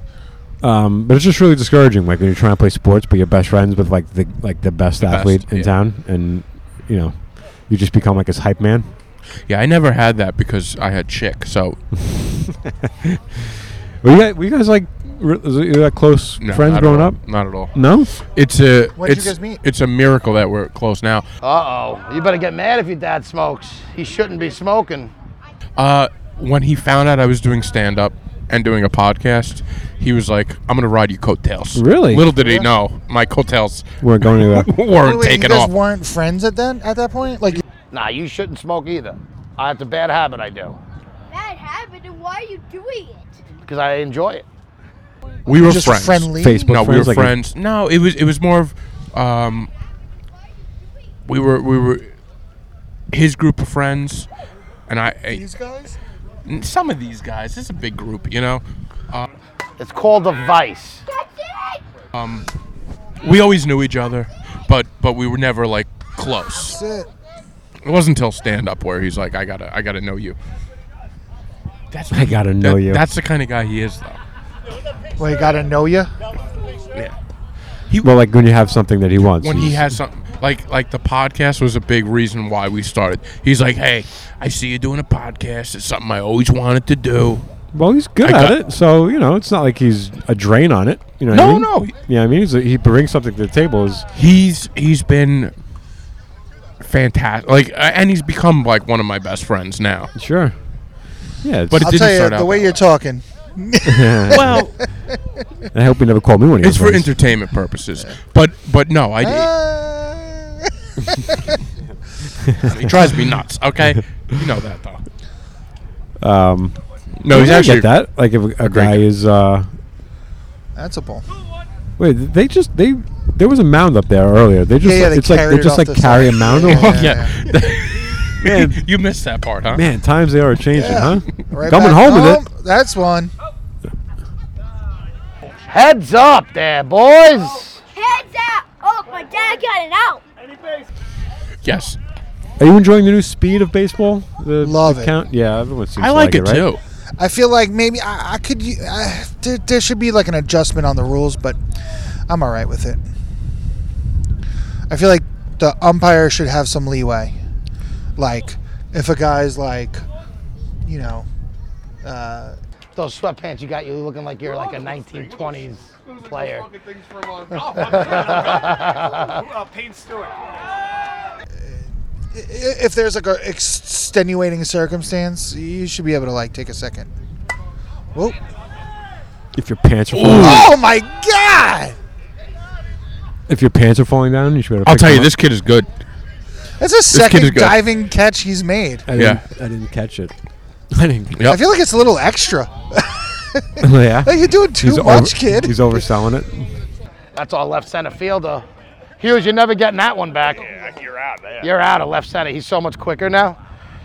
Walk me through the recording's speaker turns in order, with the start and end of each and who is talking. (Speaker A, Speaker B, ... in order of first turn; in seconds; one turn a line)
Speaker A: 0.6-8.9
Speaker B: 5.0-5.7
Speaker B: 9.5-11.8
Speaker A: 12.1-17.2
Speaker B: 16.4-21.3
Speaker A: 17.7-18.1
Speaker C: 19.0-19.6
Speaker D: 21.4-25.1
Speaker B: 25.8-35.7
Speaker A: 31.7-32.3
Speaker A: 34.0-34.7
Speaker C: 35.0-37.6
Speaker D: 37.9-40.8
Speaker E: 41.3-43.4
Speaker D: 43.6-44.5
Speaker B: 45.5-49.7
Speaker C: 45.6-46.7
Speaker A: 46.4-47.4
Speaker B: 51.2-52.1
Speaker B: 53.1-54.3
Speaker B: 54.9-55.4
Speaker C: 55.3-56.0
Speaker B: 56.5-59.3
Speaker D: 59.8-61.0
Speaker E: 61.1-61.8
Speaker B: 62.1-62.5
Speaker B: 63.2-66.8
Speaker C: 66.6-67.1
Speaker B: 67.8-70.4
Speaker B: 71.9-74.2
Speaker A: 72.1-73.0
Speaker C: 75.2-76.1
Speaker A: 78.0-80.0
Speaker B: 79.4-87.5
Speaker A: 87.7-94.1
Speaker B: 88.2-88.6
Speaker B: 91.3-92.0
Speaker B: 94.2-95.5
Speaker B: 96.8-100.1
Speaker A: 100.1-100.6
Speaker A: 101.4-101.9
Speaker B: 101.7-102.8
Speaker C: 101.8-104.6
Speaker A: 103.9-104.7
Speaker B: 104.3-104.8
Speaker A: 105.7-107.2
Speaker B: 106.6-109.5
Speaker C: 109.2-110.5
Speaker C: 111.1-111.5
Speaker B: 112.6-115.0
Speaker A: 116.2-119.7
Speaker B: 117.2-118.0
Speaker B: 118.6-119.0
Speaker C: 120.8-121.3
Speaker A: 122.0-127.3
Speaker C: 124.8-127.3
Speaker B: 126.7-129.8
Speaker A: 128.4-128.8
Speaker A: 129.7-132.4
Speaker C: 130.7-133.3
Speaker D: 135.7-137.8
Speaker E: 137.9-140.2
Speaker B: 141.6-142.0
Speaker A: 142.6-146.7
Speaker C: 144.6-145.1
Speaker B: 146.0-146.8
Speaker C: 147.2-151.6
Speaker C: 152.3-153.0
Speaker C: 154.9-157.4
Speaker C: 158.2-160.0
Speaker C: 160.8-161.3
Speaker C: 162.0-162.6
Speaker D: 162.9-166.7
Speaker F: 166.8-168.8
Speaker D: 167.7-169.4
Speaker F: 169.6-170.3
Speaker C: 172.3-177.1
Speaker A: 179.6-180.7
Speaker B: 180.1-180.7
Speaker C: 180.3-182.0
Speaker A: 183.5-185.3
Speaker B: 184.8-185.9
Speaker C: 186.8-189.1
Speaker B: 187.1-187.8
Speaker A: 189.1-190.3
Speaker B: 189.2-189.4
Speaker A: 190.9-191.4
Speaker C: 191.4-196.1
Speaker A: 193.8-196.7
Speaker D: 197.3-198.7
Speaker D: 199.2-200.7
Speaker F: 200.7-201.7
Speaker D: 201.6-203.6